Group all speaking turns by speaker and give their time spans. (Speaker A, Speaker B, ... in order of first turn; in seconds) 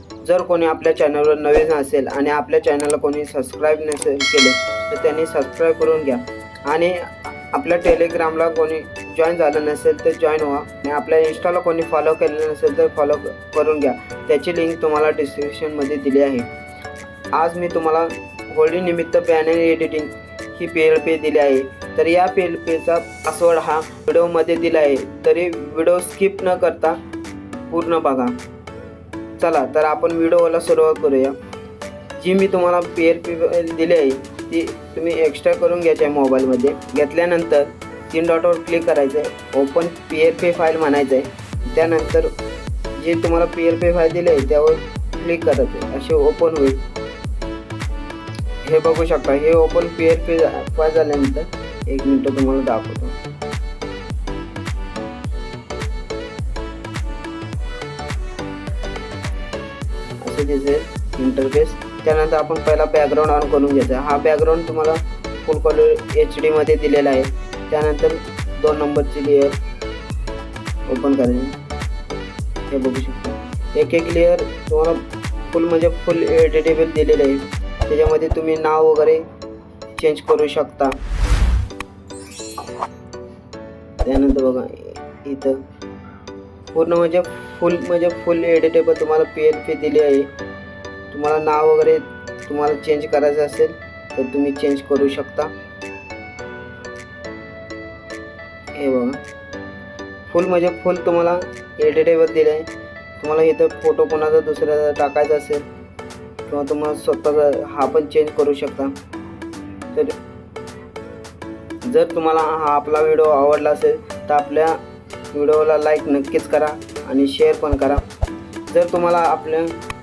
Speaker A: 0.2-16.5, 17.3-27.0, 27.7-28.4, 29.4-31.4, 32.2-42.3, 43.0-46.8, 48.6-53.2, 60.2-69.6, 70.9-71.6, 72.7-79.2, 80.0-81.0, 84.0-85.6, 86.7-90.3, 91.1-95.5, 98.7-99.2, 100.3-105.7, 106.5-109.0, 111.8-114.8, 115.3-118.0, 118.7-119.7